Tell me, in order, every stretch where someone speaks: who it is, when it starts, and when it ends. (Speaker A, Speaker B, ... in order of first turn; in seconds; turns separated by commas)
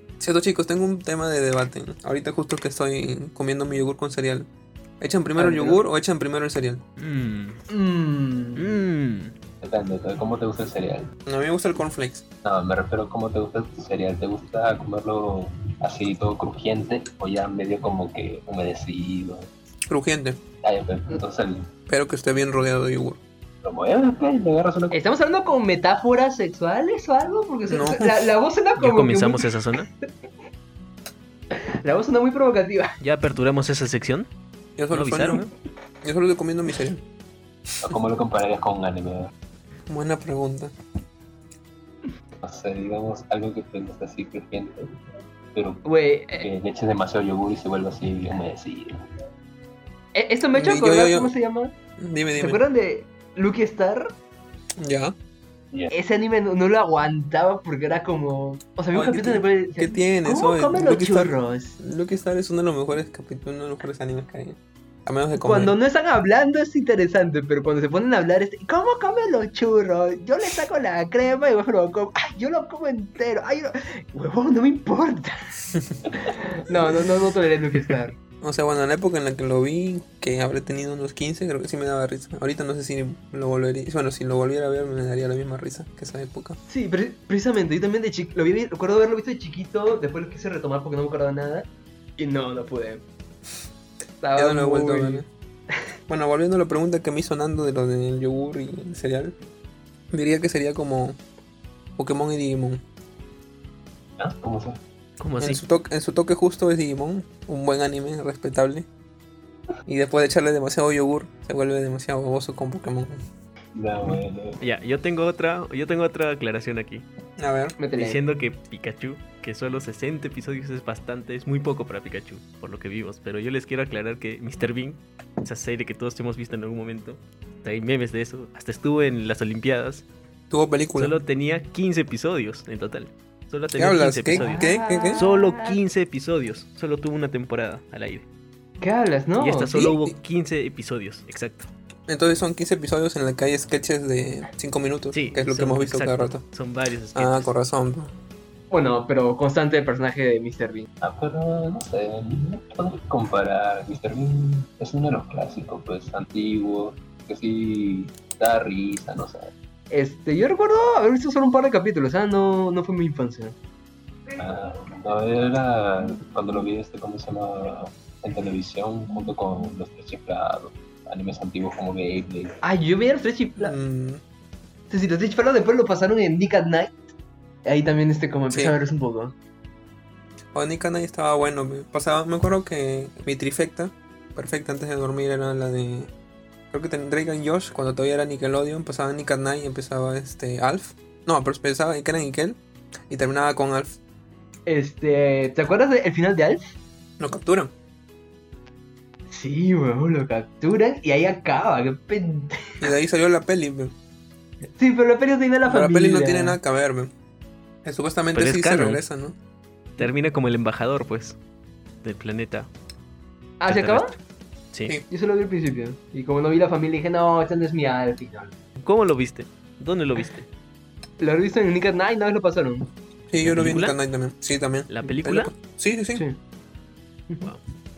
Speaker A: 0.2-4.5, Speaker A: 5.0-6.8, Speaker B: 5.4-5.8, Speaker C: 7.0-7.6, Speaker B: 7.7-8.8, Speaker C: 8.6-9.3, Speaker D: 9.6-11.1, Speaker A: 11.3-12.2, Speaker D: 12.4-19.5, Speaker A: 19.9-20.4, Speaker D: 20.6-21.7, Speaker A: 21.9-23.2, Speaker D: 23.6-25.0, Speaker B: 24.9-29.5, Speaker A: 27.7-28.3, Speaker C: 28.8-29.9, Speaker B: 31.5-32.9, Speaker C: 33.0-34.3, Speaker A: 34.8-35.4, Speaker C: 34.9-35.5, Speaker A: 36.0-37.0, Speaker D: 37.8-39.3, Speaker A: 39.9-40.7, Speaker D: 42.4-44.9, Speaker D: 45.5-45.9, Speaker B: 45.9-46.5, Speaker D: 46.4-49.0, Speaker B: 50.1-51.7, Speaker A: 50.6-51.3, Speaker A: 52.0-52.6, Speaker B: 52.4-54.1, Speaker A: 54.8-55.1, Speaker B: 55.9-61.8, Speaker A: 58.9-65.7, Speaker B: 65.4-75.6, Speaker B: 76.1-78.1, Speaker A: 78.4-86.6, Speaker B: 86.7-91.7, Speaker B: 92.2-93.0, Speaker B: 94.2-95.2, Speaker A: 94.4-95.3, Speaker A: 96.1-99.3, Speaker A: 100.1-101.2, Speaker A: 102.0-102.8, Speaker D: 104.2-104.8, Speaker C: 105.2-105.6, Speaker A: 105.4-108.9, Speaker A: 109.9-113.2, Speaker D: 113.8-114.6, Speaker C: 114.6-117.1, Speaker A: 117.4-117.8, Speaker B: 117.8-118.2, Speaker C: 118.0-130.1, Speaker A: 130.5-131.2, Speaker C: 130.9-138.2, Speaker A: 133.8-135.2, Speaker B: 134.3-135.8, Speaker B: 138.8-140.0, Speaker C: 139.4-141.7, Speaker A: 142.1-146.4, Speaker C: 145.1-147.5, Speaker A: 147.2-148.1, Speaker B: 148.7-150.9, Speaker D: 151.0-159.5, Speaker B: 159.9-163.6, Speaker D: 164.3-172.6, Speaker B: 172.6-173.8, Speaker A: 173.6-174.2, Speaker B: 174.9-177.0, Speaker B: 177.7-179.3, Speaker A: 178.5-178.8, Speaker A: 180.5-186.1, Speaker A: 186.7-192.6, Speaker A: 193.1-194.0, Speaker B: 194.7-196.6, Speaker A: 197.2-197.7, Speaker B: 199.3-202.9, Speaker A: 202.8-203.9, Speaker B: 204.8-206.6, Speaker A: 205.7-207.1, Speaker A: 207.8-209.3, Speaker C: 208.3-209.0, Speaker C: 210.0-211.4, Speaker C: 212.0-212.7, Speaker B: 213.6-214.1, Speaker C: 213.7-214.2, Speaker B: 215.1-218.5, Speaker C: 218.8-220.5, Speaker B: 221.2-222.9, Speaker A: 223.3-226.2, Speaker C: 223.4-224.0, Speaker C: 224.9-225.5